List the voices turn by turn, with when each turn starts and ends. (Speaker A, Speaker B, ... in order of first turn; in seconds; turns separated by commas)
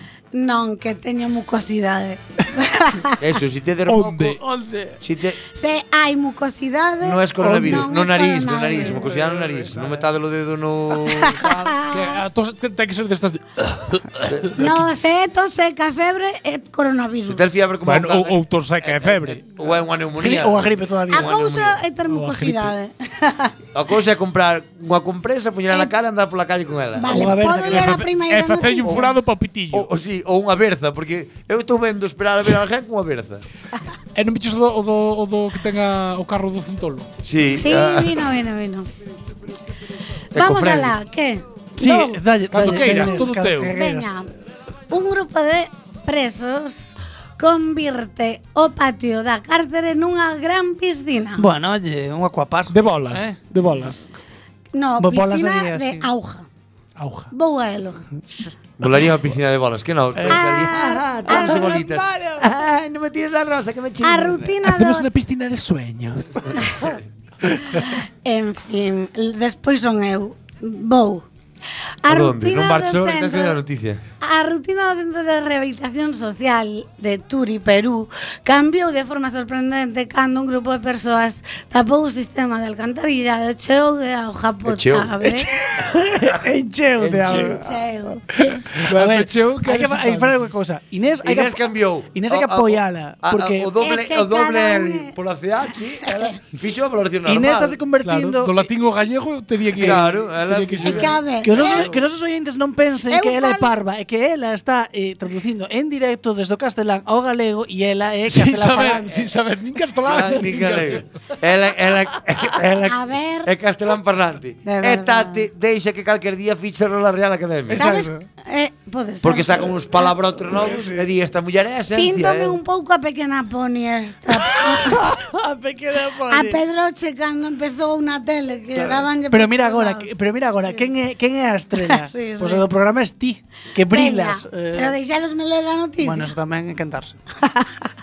Speaker A: 0.3-3.2, Speaker B: 3.2-4.4, Speaker C: 3.9-4.4, Speaker D: 4.4-5.0, Speaker B: 5.0-5.4, Speaker A: 5.5-9.1, Speaker B: 7.0-11.8, Speaker D: 7.4-7.8, Speaker D: 8.9-10.0, Speaker A: 11.0-12.2, Speaker C: 11.9-14.8, Speaker B: 14.3-14.6, Speaker A: 14.6-17.4, Speaker B: 17.3-21.8, Speaker C: 17.9-19.4, Speaker D: 20.2-21.4, Speaker A: 21.1-23.5, Speaker C: 22.1-22.7, Speaker B: 23.7-27.6, Speaker A: 27.0-29.1, Speaker D: 27.1-28.1, Speaker C: 27.7-29.9, Speaker B: 28.9-29.1, Speaker B: 29.7-33.4, Speaker C: 34.1-37.1, Speaker B: 37.2-38.3, Speaker A: 37.6-38.9, Speaker B: 40.3-41.0, Speaker A: 40.3-44.3, Speaker D: 41.8-44.1, Speaker C: 42.5-43.7, Speaker A: 44.9-51.5, Speaker D: 51.4-53.4, Speaker C: 52.7-54.1, Speaker A: 54.7-56.5, Speaker D: 55.0-56.1, Speaker C: 57.0-57.3, Speaker A: 57.3-58.0, Speaker B: 58.8-64.5, Speaker D: 60.2-60.7, Speaker A: 60.3-61.8, Speaker D: 61.2-62.5, Speaker A: 64.0-65.1, Speaker C: 64.7-66.6, Speaker A: 67.8-71.3, Speaker A: 72.0-73.6, Speaker B: 72.1-74.0, Speaker A: 74.2-85.5, Speaker B: 84.7-85.2, Speaker D: 85.2-87.8, Speaker B: 87.0-87.6, Speaker A: 87.3-88.2, Speaker D: 88.4-93.8, Speaker C: 88.8-90.4, Speaker B: 91.2-97.8, Speaker A: 93.8-95.2, Speaker D: 97.3-98.7, Speaker C: 98.0-101.2, Speaker B: 99.8-101.7, Speaker A: 100.8-101.9, Speaker D: 101.4-109.3, Speaker A: 103.1-103.7, Speaker C: 108.3-111.0, Speaker B: 110.0-118.0, Speaker A: 112.9-113.5, Speaker A: 114.7-115.5, Speaker A: 117.7-120.1, Speaker D: 117.8-118.2, Speaker B: 119.2-122.6, Speaker D: 120.5-121.0, Speaker A: 121.9-125.0, Speaker D: 124.4-126.6, Speaker A: 126.3-130.2, Speaker D: 128.8-135.0, Speaker A: 131.9-132.7, Speaker A: 133.9-136.3, Speaker D: 136.0-137.2, Speaker A: 137.4-137.7